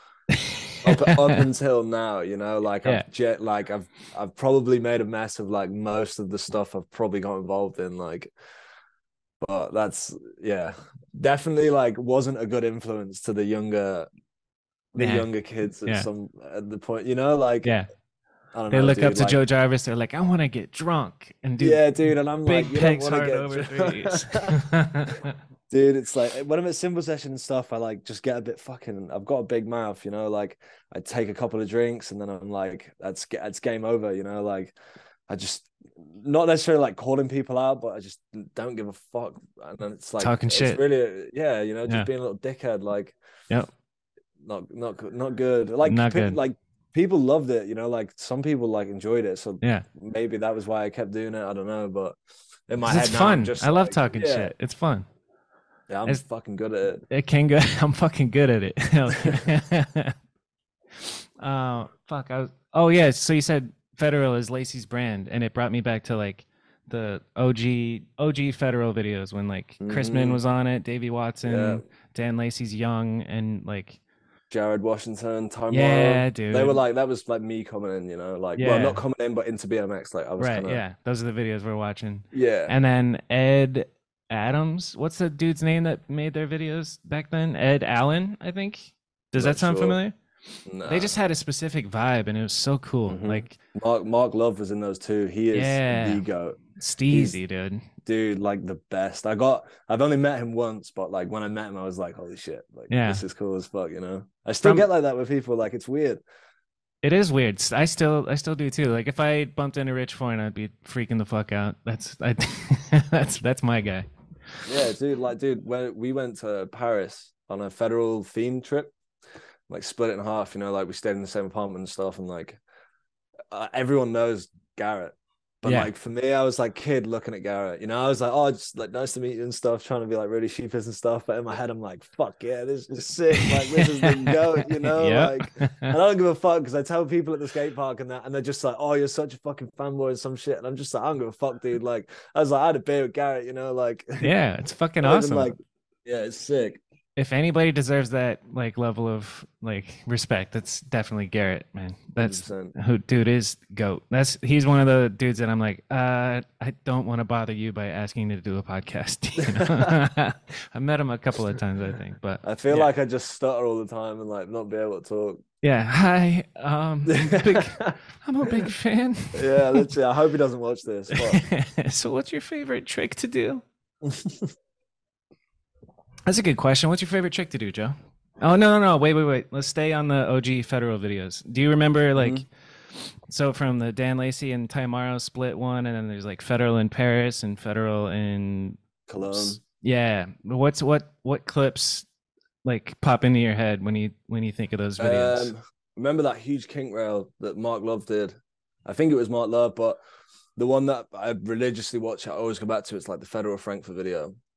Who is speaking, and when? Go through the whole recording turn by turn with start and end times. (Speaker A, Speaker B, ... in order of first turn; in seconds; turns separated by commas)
Speaker A: 0.3-1.4, Speaker B: 0.8-8.3, Speaker B: 9.4-14.1, Speaker B: 14.9-17.7, Speaker A: 15.0-15.3, Speaker B: 18.5-19.4, Speaker A: 18.7-25.4, Speaker B: 21.6-24.6, Speaker B: 25.7-34.7, Speaker B: 35.3-43.1, Speaker A: 40.2-40.8, Speaker B: 44.4-52.2, Speaker A: 45.8-46.4, Speaker B: 52.7-54.5, Speaker A: 52.8-55.0, Speaker B: 55.9-57.0, Speaker A: 57.1-60.1, Speaker A: 61.0-74.0, Speaker B: 69.8-70.4, Speaker B: 71.4-71.8, Speaker B: 74.5-80.8, Speaker A: 75.7-76.8, Speaker A: 78.5-79.0, Speaker A: 80.4-90.1, Speaker B: 82.3-82.7, Speaker B: 89.3-90.0, Speaker B: 90.7-91.1, Speaker A: 90.8-93.6, Speaker B: 93.1-97.4, Speaker A: 95.5-96.2, Speaker A: 96.8-97.8, Speaker B: 98.0-106.2, Speaker A: 102.9-103.2, Speaker A: 107.0-114.1, Speaker B: 114.7-118.9, Speaker B: 119.7-122.6, Speaker B: 123.5-144.3, Speaker A: 125.6-125.9, Speaker A: 133.3-135.9, Speaker A: 144.2-145.5, Speaker B: 145.0-146.8, Speaker A: 147.2-162.9, Speaker B: 152.2-152.7, Speaker B: 159.4-159.9, Speaker B: 162.4-165.4, Speaker A: 165.6-169.9, Speaker B: 167.1-167.9, Speaker B: 169.3-171.4, Speaker A: 171.1-173.6, Speaker B: 174.0-174.5, Speaker A: 176.3-192.1, Speaker B: 182.2-182.4, Speaker B: 189.1-189.6, Speaker A: 192.6-195.5, Speaker B: 195.0-198.3, Speaker B: 198.8-200.0, Speaker B: 200.6-204.3